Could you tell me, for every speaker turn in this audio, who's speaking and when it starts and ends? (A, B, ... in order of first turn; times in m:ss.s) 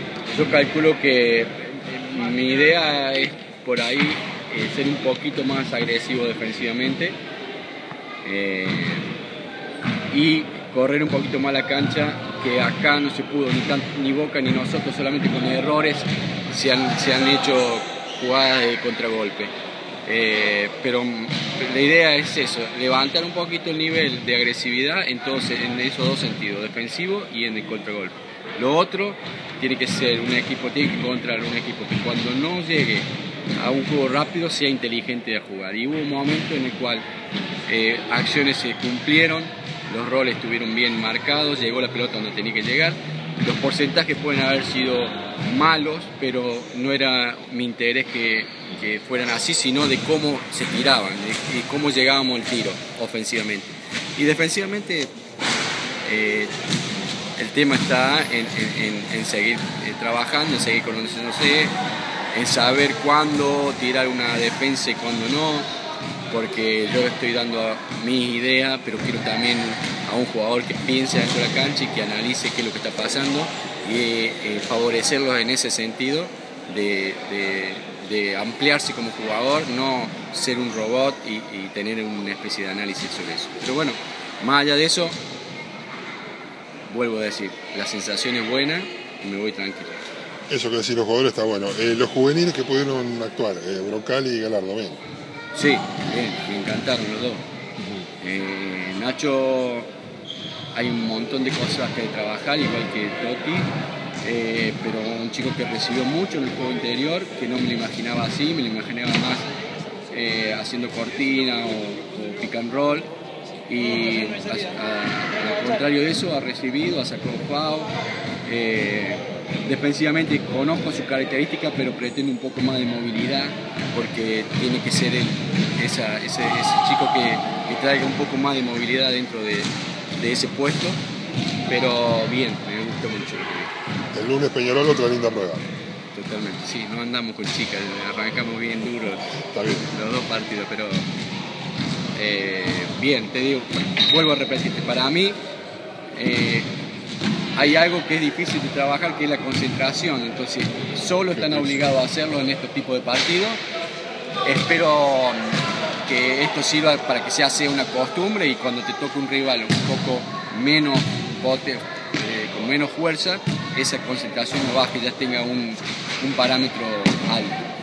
0:00.3-0:07.2 A
0:08.2-0:09.1 A
0:10.1-0:19.5 A
0:20.0-0:37.0 A
0:37.7-0:55.1 A
0:56.0-0:56.5 A
0:57.4-1:01.7 A
1:02.3-1:05.7 A
1:06.3-1:25.2 A
1:26.9-1:30.1 A
1:30.5-1:35.0 B
1:35.5-1:37.4 A
1:38.2-1:39.9 A
1:40.7-1:43.7 A
1:44.2-1:49.4 A
1:50.1-1:53.1 A
1:53.7-1:57.9 A
1:58.4-2:11.0 A
2:11.7-2:13.7 A
2:14.1-2:15.6 B
2:16.1-2:19.4 A
2:19.4-2:19.9 B
2:19.9-2:21.1 A
2:22.1-2:25.4 A
2:26.2-2:26.7 A
2:27.6-2:33.6 A
2:31.3-2:31.8 B
2:34.4-2:47.7 A